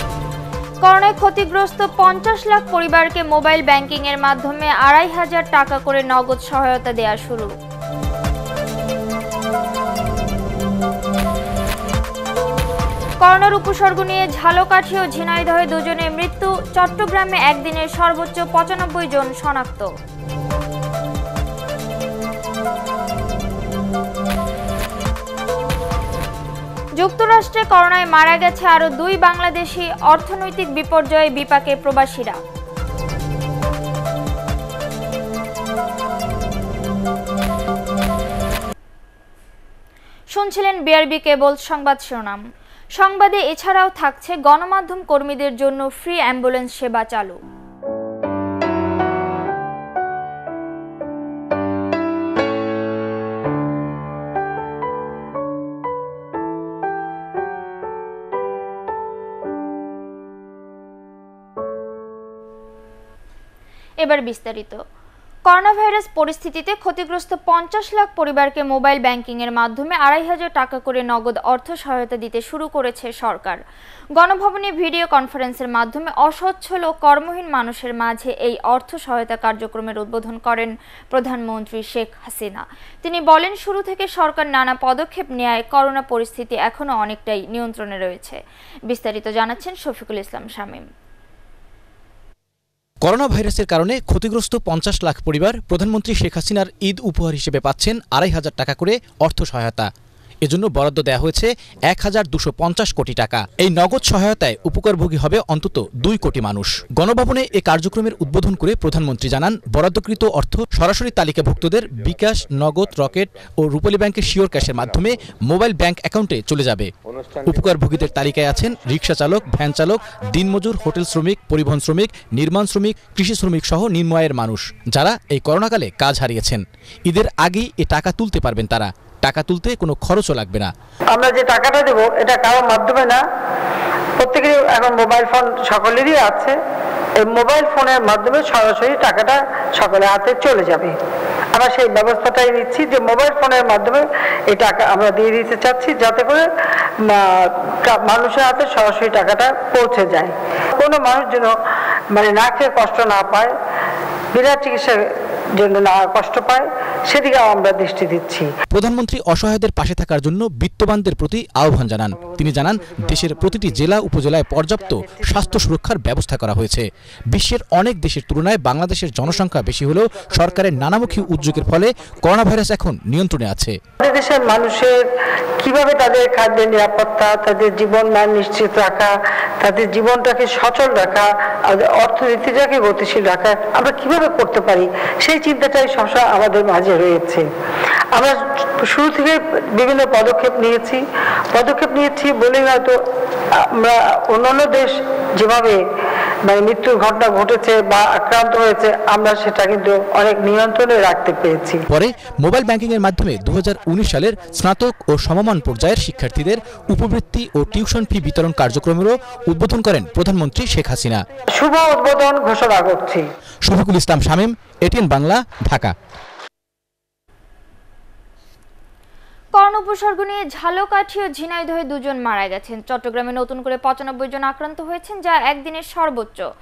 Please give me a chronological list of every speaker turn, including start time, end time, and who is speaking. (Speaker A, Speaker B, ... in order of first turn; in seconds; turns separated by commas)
Speaker A: 0.8-7.5, Speaker A: 13.2-19.9, Speaker A: 27.0-32.4, Speaker A: 40.4-42.4, Speaker A: 43.0-47.4, Speaker A: 64.0-64.8, Speaker A: 65.5-73.6, Speaker A: 74.2-90.9, Speaker B: 93.0-99.9, Speaker B: 100.4-116.9, Speaker B: 117.5-130.7, Speaker C: 131.1-133.3, Speaker C: 134.2-136.6, Speaker C: 137.2-141.0, Speaker C: 141.5-151.6, Speaker C: 152.1-153.6, Speaker C: 154.3-158.5, Speaker B: 158.7-173.8, Speaker C: 174.0-187.5, Speaker C: 188.1-195.9, Speaker C: 196.4-201.8, Speaker B: 201.9-211.3, Speaker C: 211.5-213.3, Speaker B: 213.6-215.9, Speaker A: 219.6-226.5